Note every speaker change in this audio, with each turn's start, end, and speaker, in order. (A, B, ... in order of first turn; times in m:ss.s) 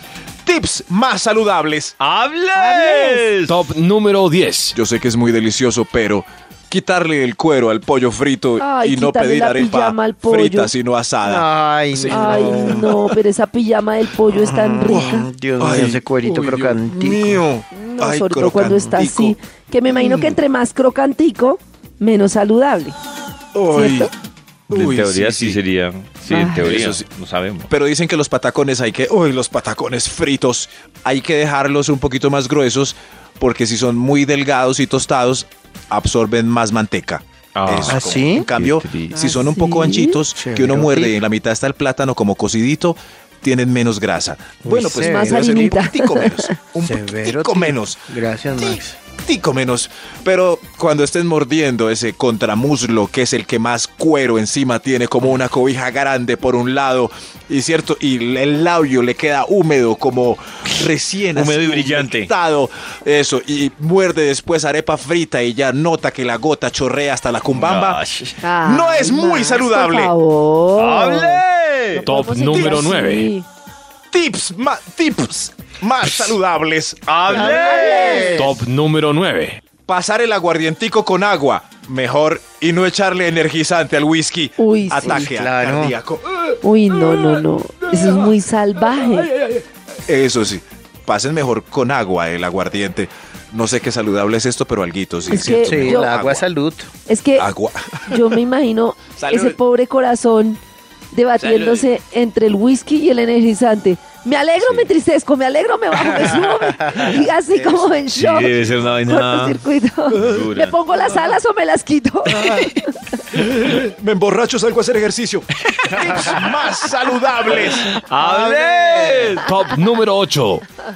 0:00.4-0:01.9 A
0:02.0-0:03.6 B
0:02.6-0:03.3 C
0:03.4-0:04.8 D
0:04.7-0:13.0 A
0:08.6-0:10.7 C
0:11.2-0:12.8 E
0:12.1-0:15.2 C
0:14.3-0:17.4 E
0:14.9-0:19.4 A
0:17.7-0:23.0 C
0:19.9-0:20.4 A
0:23.5-0:24.1 A
0:23.7-0:24.1 C
0:24.7-0:25.6 A
0:24.7-0:27.7 B
0:26.3-0:27.1 A
0:27.7-1:08.0 A
0:37.5-0:39.1 B
0:37.9-0:38.5 E
0:39.1-0:40.2 C
0:40.3-0:41.2 E
0:44.6-0:45.7 E
0:45.0-0:46.6 C
0:46.8-0:49.0 E
1:01.3-1:02.3 B
1:07.5-1:08.4 B
1:08.4-1:11.4 C
1:08.6-1:10.1 A
1:10.8-1:12.0 B
1:11.9-1:13.4 C
1:12.0-1:13.3 D
1:12.5-1:12.8 A
1:14.1-1:17.4 A
1:17.1-1:18.2 B
1:17.3-1:18.6 E
1:17.4-1:18.5 C
1:18.2-1:19.6 D
1:19.8-1:27.3 A
1:24.6-1:25.3 C
1:25.0-1:26.0 E
1:26.6-1:29.3 C
1:27.9-1:28.3 A
1:29.3-1:36.4 A
1:35.3-1:36.4 C
1:35.6-1:36.9 E
1:37.1-1:37.5 C
1:37.4-1:38.3 A
1:38.1-1:40.6 C
1:39.2-1:39.6 A
1:41.1-1:48.5 C
1:41.4-1:41.9 A
1:46.1-1:47.8 E
1:48.1-1:49.6 B
1:48.4-1:49.1 A
1:49.1-1:52.8 C
1:50.1-1:50.4 A
1:50.2-1:50.8 B
1:50.9-1:51.3 A
1:52.3-1:52.7 A
1:53.3-1:58.0 A
1:55.8-1:56.4 E
1:58.0-1:59.5 B
1:58.2-1:59.4 E
1:59.4-2:00.6 D